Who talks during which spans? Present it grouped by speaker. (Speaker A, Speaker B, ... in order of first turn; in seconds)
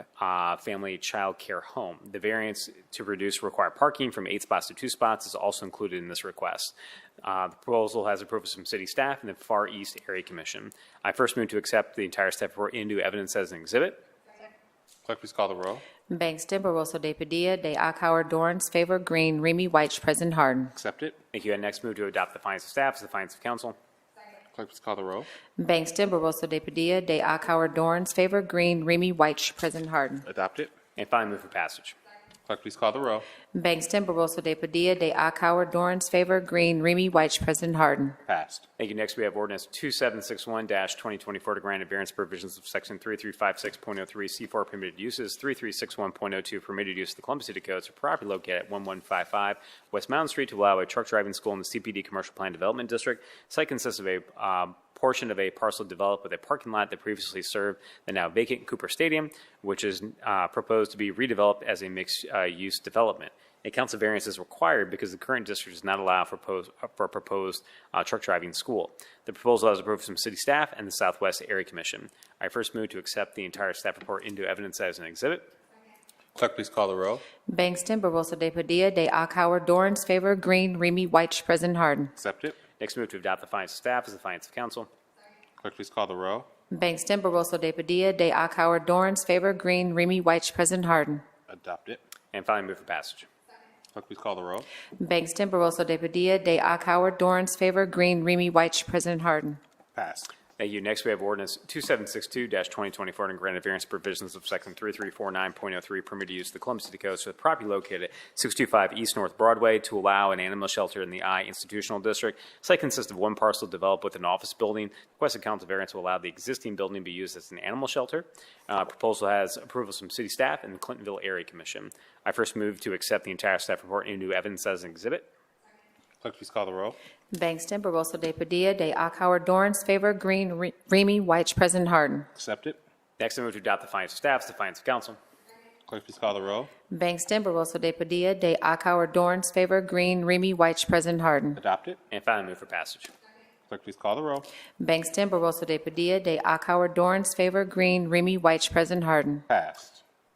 Speaker A: 0.2-14.0, 21.3-23.8, 31.0-31.9, 38.8-75.5, 82.8-84.9, 92.3-93.3, 100.6-125.3, 133.2-135.2, 142.1-143.1
Speaker B: 15.1-15.8, 20.8-21.2, 24.5-25.3, 30.3-30.7, 32.5-33.3, 38.3-38.6, 76.3-77.2, 82.2-82.6, 85.6-86.5, 91.5-92.0, 93.9-94.7, 100.0-100.3, 126.2-127.0, 132.3-132.8, 135.9-136.7, 141.6-142.0, 143.7-144.5, 149.5-150.0
Speaker C: 16.1-20.7, 25.6-30.2, 33.5-38.2, 77.5-82.1, 86.7-91.2, 95.0-99.6, 127.3-132.3, 136.9-141.6, 144.8-149.4